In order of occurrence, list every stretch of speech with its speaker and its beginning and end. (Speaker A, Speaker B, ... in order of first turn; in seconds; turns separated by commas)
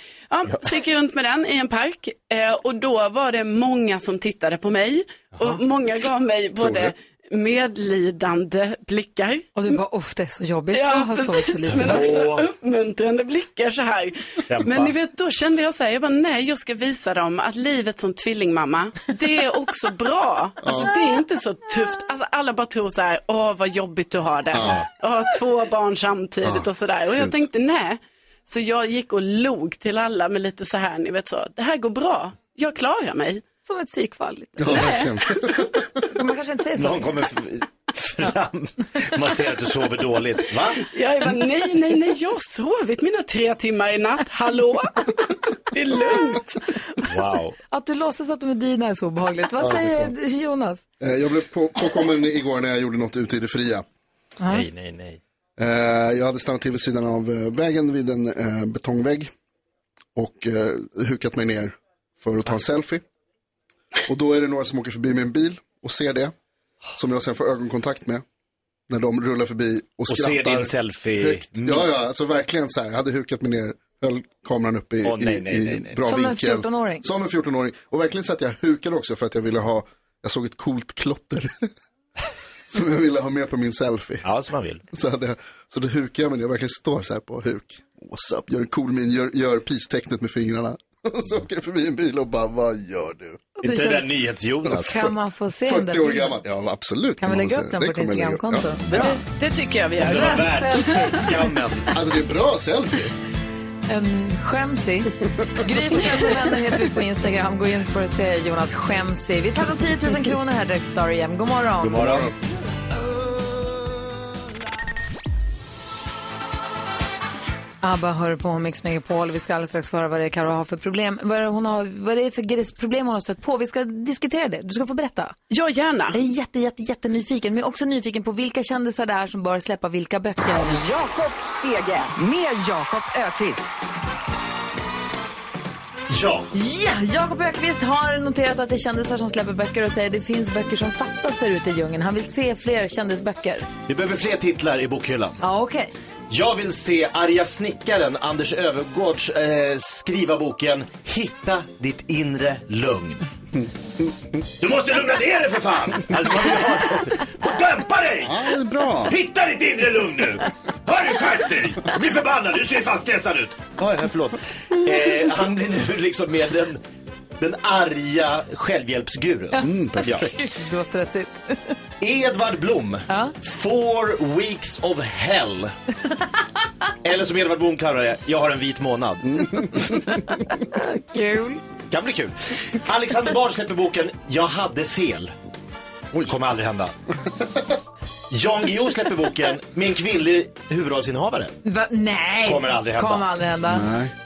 Speaker A: 0.3-9.5, Speaker B: 6.6-6.9, Speaker C: 9.6-12.1, Speaker A: 10.7-33.4, Speaker D: 11.7-12.5, Speaker D: 14.5-14.9, Speaker B: 20.6-20.9, Speaker B: 24.5-24.8, Speaker C: 33.6-34.9, Speaker B: 34.6-35.8, Speaker A: 34.7-35.7, Speaker C: 36.1-37.2, Speaker D: 36.8-40.9, Speaker A: 40.8-46.6, Speaker D: 47.0-47.6, Speaker C: 47.7-50.9, Speaker D: 49.6-49.9, Speaker B: 51.0-53.9, Speaker C: 54.4-54.7, Speaker D: 54.5-55.2, Speaker B: 55.6-59.3, Speaker B: 60.1-63.0, Speaker B: 64.1-66.3, Speaker B: 67.0-68.2, Speaker B: 68.9-81.7, Speaker D: 70.1-71.9, Speaker D: 75.0-76.0, Speaker C: 76.0-77.1, Speaker B: 82.7-84.2, Speaker D: 84.2-84.8, Speaker B: 84.9-93.5, Speaker C: 93.6-94.1, Speaker D: 93.6-95.1, Speaker C: 94.7-96.4, Speaker B: 95.6-99.1, Speaker C: 97.2-99.2, Speaker A: 99.0-100.6, Speaker D: 100.0-101.9, Speaker C: 100.0-101.3, Speaker B: 101.9-103.2, Speaker C: 103.9-112.2, Speaker D: 111.8-112.3, Speaker B: 112.0-112.3, Speaker C: 117.8-125.4, Speaker A: 125.5-126.2, Speaker C: 126.1-130.8, Speaker E: 130.6-133.8, Speaker D: 136.1-136.5, Speaker C: 136.5-143.7, Speaker D: 143.9-145.4, Speaker C: 145.4-145.9, Speaker D: 146.3-153.3, Speaker D: 154.6-158.4, Speaker B: 158.2-159.2, Speaker D: 159.1-166.8, Speaker D: 167.4-170.3, Speaker C: 169.5-171.8, Speaker B: 169.6-170.3, Speaker D: 172.0-175.7, Speaker C: 173.1-173.3, Speaker D: 177.0-180.0, Speaker B: 179.3-179.9, Speaker C: 180.7-181.6, Speaker D: 181.9-185.3, Speaker D: 186.3-186.9, Speaker D: 188.3-191.6, Speaker C: 191.7-193.9, Speaker D: 192.5-193.2, Speaker B: 193.7-194.1